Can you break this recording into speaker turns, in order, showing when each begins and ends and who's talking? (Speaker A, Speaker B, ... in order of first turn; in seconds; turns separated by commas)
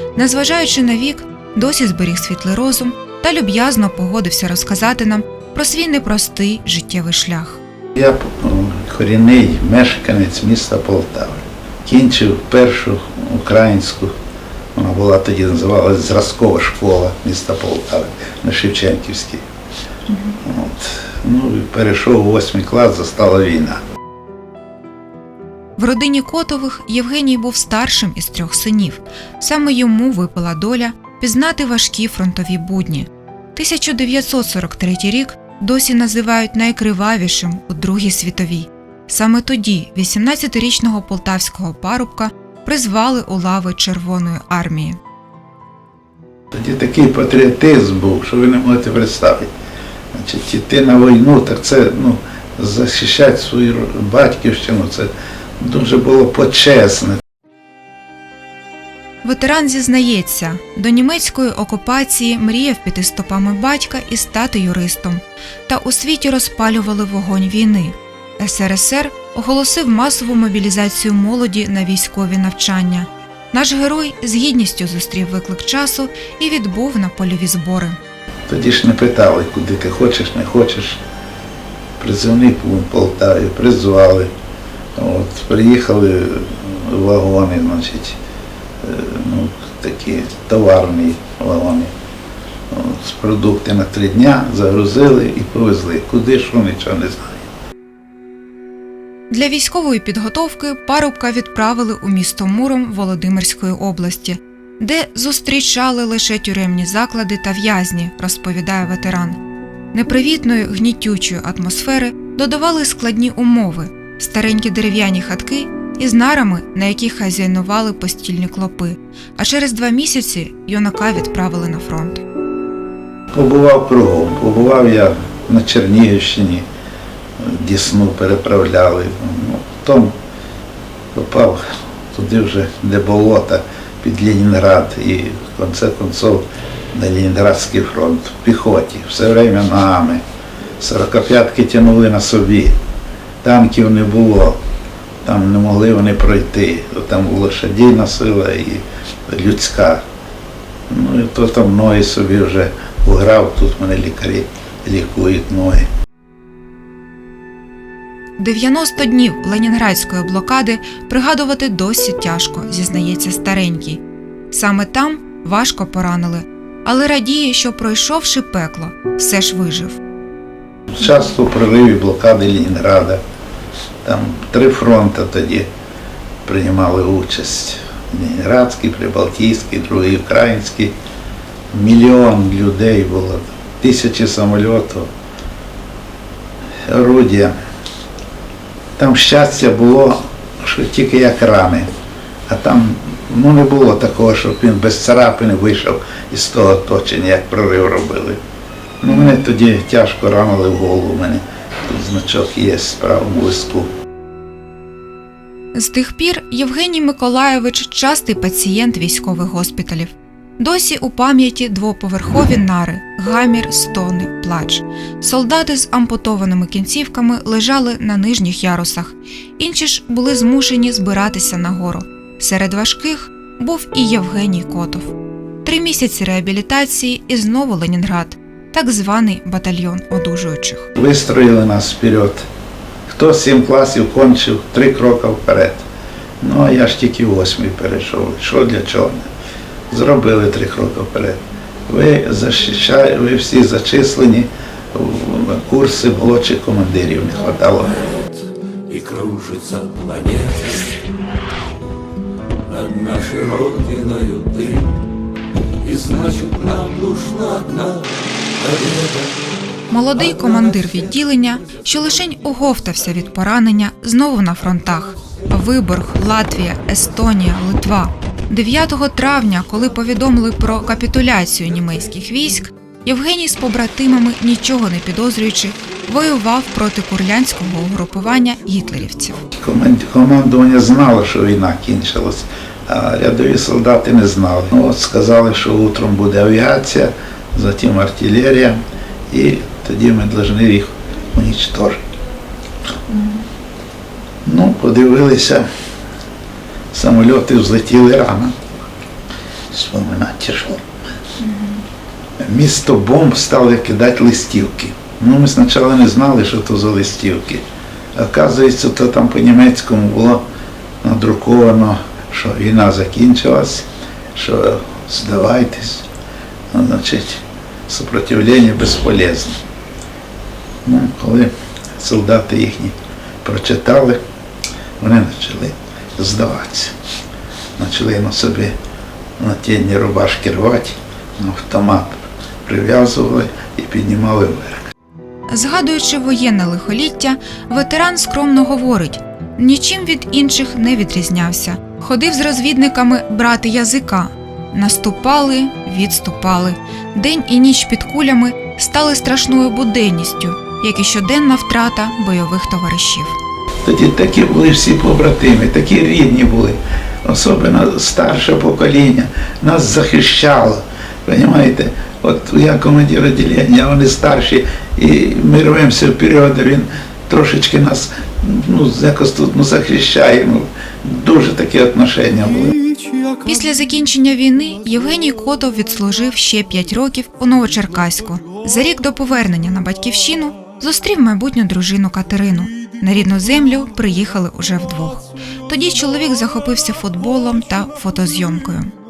Speaker A: 0.1-7.6, Speaker B: 8.0-14.1, Speaker B: 14.7-19.4, Speaker A: 20.1-20.4, Speaker B: 20.4-23.8, Speaker A: 25.8-45.0, Speaker B: 46.5-49.5, Speaker B: 50.1-57.2, Speaker A: 59.2-78.0, Speaker B: 78.5-81.0, Speaker B: 82.0-84.3, Speaker B: 85.0-88.2, Speaker B: 88.8-91.9, Speaker B: 92.7-97.4, Speaker A: 99.3-109.4, Speaker A: 109.9-122.2, Speaker B: 123.3-126.6, Speaker B: 127.4-130.1, Speaker B: 131.1-131.6, Speaker B: 132.1-140.2, Speaker B: 140.8-142.7, Speaker B: 143.4-144.6, Speaker B: 145.2-150.0, Speaker B: 150.9-155.8, Speaker A: 158.4-170.0, Speaker B: 170.9-173.2, Speaker B: 174.0-175.7, Speaker B: 176.4-180.9, Speaker B: 181.7-185.1, Speaker B: 186.9-187.6, Speaker B: 189.0-191.9, Speaker B: 192.5-198.4, Speaker B: 199.0-203.9, Speaker A: 205.7-225.1, Speaker A: 225.6-230.9, Speaker B: 230.9-232.4, Speaker B: 233.1-235.8, Speaker B: 236.4-239.3, Speaker B: 239.9-248.2, Speaker C: 248.9-250.7, Speaker C: 252.8-254.8, Speaker C: 255.9-258.0, Speaker C: 258.6-259.2, Speaker A: 259.9-279.4, Speaker B: 279.5-292.0, Speaker A: 293.1-293.4, Speaker B: 294.4-295.6, Speaker B: 296.9-298.5, Speaker B: 299.7-300.9, Speaker A: 301.4-301.8, Speaker B: 302.4-307.6, Speaker B: 308.1-310.4, Speaker B: 311.0-316.1, Speaker B: 316.7-319.6, Speaker B: 320.8-324.2, Speaker B: 325.0-326.9, Speaker B: 327.8-328.7, Speaker B: 329.4-334.9, Speaker A: 335.5-353.4, Speaker B: 353.8-372.8, Speaker A: 373.4-388.9